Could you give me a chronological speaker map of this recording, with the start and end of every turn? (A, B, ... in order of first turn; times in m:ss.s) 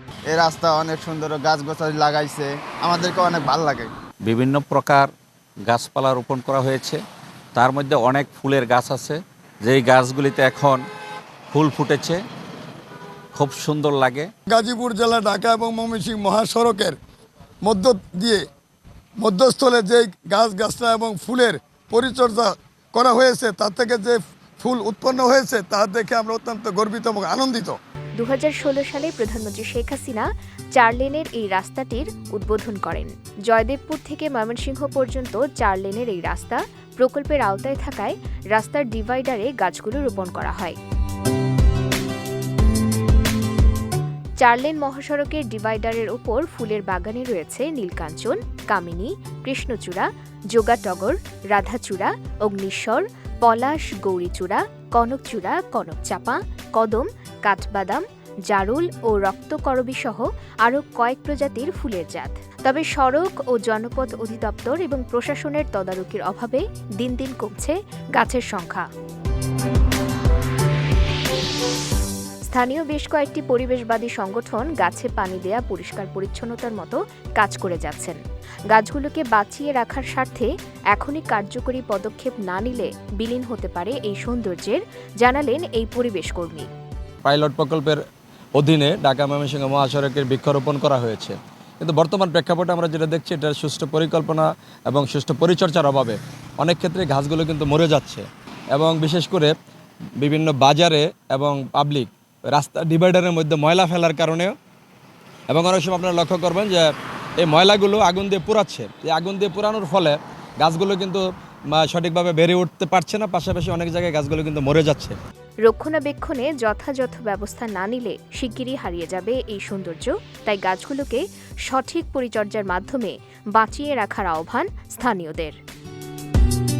0:00.3-0:03.9 A
0:04.3-0:05.1 B
0:05.6-0:07.0 B
0:07.6-0:10.8 B
0:11.5-0:12.2 B
0:13.3-0:14.3 B
0:14.5-0:17.0 C
0:17.6-0:18.4 C
0:19.2-0:27.8 C
0:28.2-0:40.8 D
0:44.4-1:08.9 D
1:12.5-1:18.2 D
1:18.7-1:26.7 D
1:27.2-1:28.0 E
1:28.6-1:39.5 E
1:40.2-1:44.5 E
1:45.5-1:46.9 E
1:47.4-1:55.2 E
1:55.6-2:05.6 D